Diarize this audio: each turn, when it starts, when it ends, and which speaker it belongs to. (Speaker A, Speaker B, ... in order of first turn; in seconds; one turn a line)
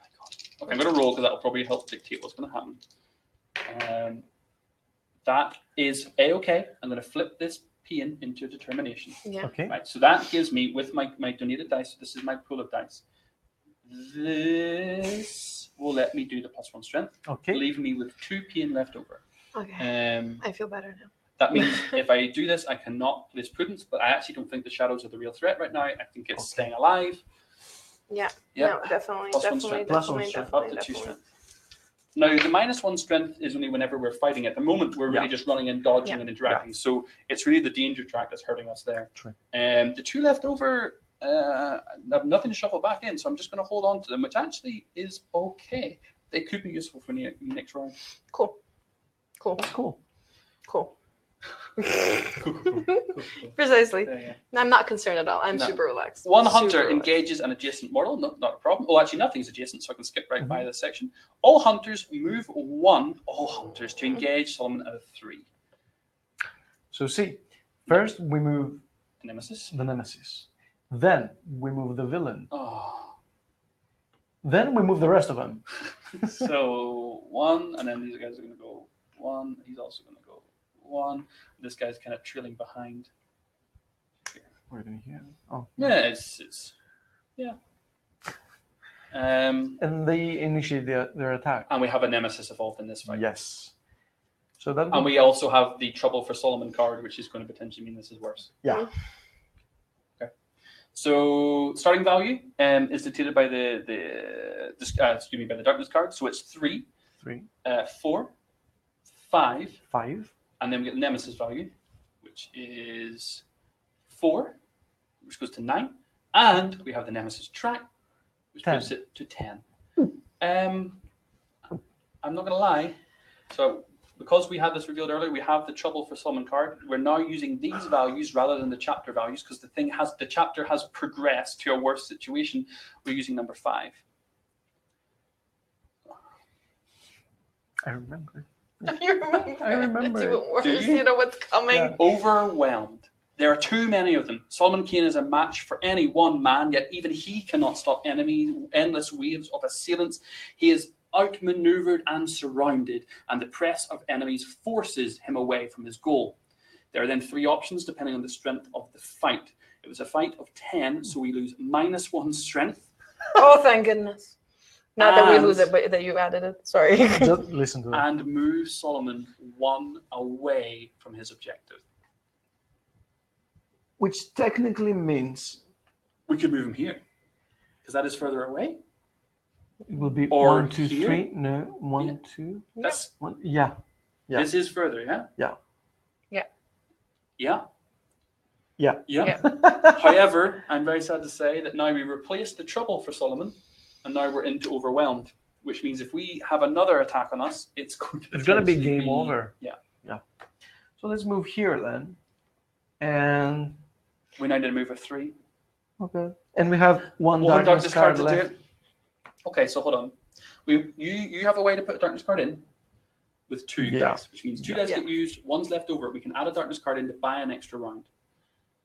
Speaker A: 0.2-2.8
Speaker A: 3.6-4.2
Speaker A: 5.2-13.0
Speaker B: 9.2-9.5
Speaker C: 9.4-9.8
Speaker A: 13.8-19.2
Speaker C: 17.3-17.6
Speaker B: 19.6-19.9
Speaker A: 19.8-20.4
Speaker B: 20.4-22.0
Speaker A: 21.4-27.2
Speaker C: 26.4-26.7
Speaker B: 28.1-31.1
Speaker A: 28.6-31.2
Speaker C: 29.8-30.5
Speaker A: 32.1-48.0
Speaker B: 48.3-48.6
Speaker B: 49.4-49.7
Speaker C: 49.6-50.0
Speaker B: 50.7-50.9
Speaker B: 51.8-53.0
Speaker A: 52.3-54.4
Speaker B: 53.6-57.1
Speaker A: 55.5-65.5
Speaker C: 66.9-68.8
Speaker A: 69.2-69.7
Speaker C: 69.7-72.5
Speaker A: 72.5-73.2
Speaker C: 74.4-75.7
Speaker A: 76.2-83.1
Speaker C: 84.7-85.9
Speaker A: 85.8-86.7
Speaker A: 89.1-89.8
Speaker C: 89.8-91.7
Speaker A: 91.7-93.2
Speaker C: 93.1-93.7
Speaker C: 94.6-95.1
Speaker A: 94.9-98.5
Speaker C: 98.6-98.9
Speaker A: 100.9-106.9
Speaker C: 107.2-107.5
Speaker A: 107.6-108.3
Speaker A: 109.2-109.8
Speaker C: 109.9-110.3
Speaker A: 110.6-113.4
Speaker A: 114.1-114.6
Speaker A: 115.2-117.9
Speaker A: 118.5-119.6
Speaker C: 118.7-118.9
Speaker A: 120.4-121.0
Speaker A: 122.2-123.0
Speaker A: 123.5-134.0
Speaker C: 137.8-140.4
Speaker B: 138.8-142.0
Speaker A: 140.6-141.1
Speaker C: 141.7-142.0
Speaker A: 141.9-156.4
Speaker A: 156.9-162.9
Speaker B: 163.4-164.3
Speaker B: 165.0-167.4
Speaker A: 165.0-165.7
Speaker C: 167.2-168.1
Speaker A: 167.9-171.8
Speaker C: 174.0-175.6
Speaker A: 176.3-177.0
Speaker A: 177.8-178.8
Speaker C: 179.9-183.8
Speaker A: 180.3-181.3
Speaker A: 182.8-183.1
Speaker A: 184.3-185.3
Speaker A: 187.4-187.6
Speaker C: 188.8-190.2
Speaker A: 189.1-199.8
Speaker C: 198.3-200.2
Speaker C: 201.0-202.2
Speaker C: 203.0-203.8
Speaker A: 204.4-205.3
Speaker C: 206.0-208.5
Speaker A: 207.4-208.6
Speaker A: 209.4-210.2
Speaker A: 210.7-212.7
Speaker A: 213.5-218.1
Speaker C: 213.8-214.8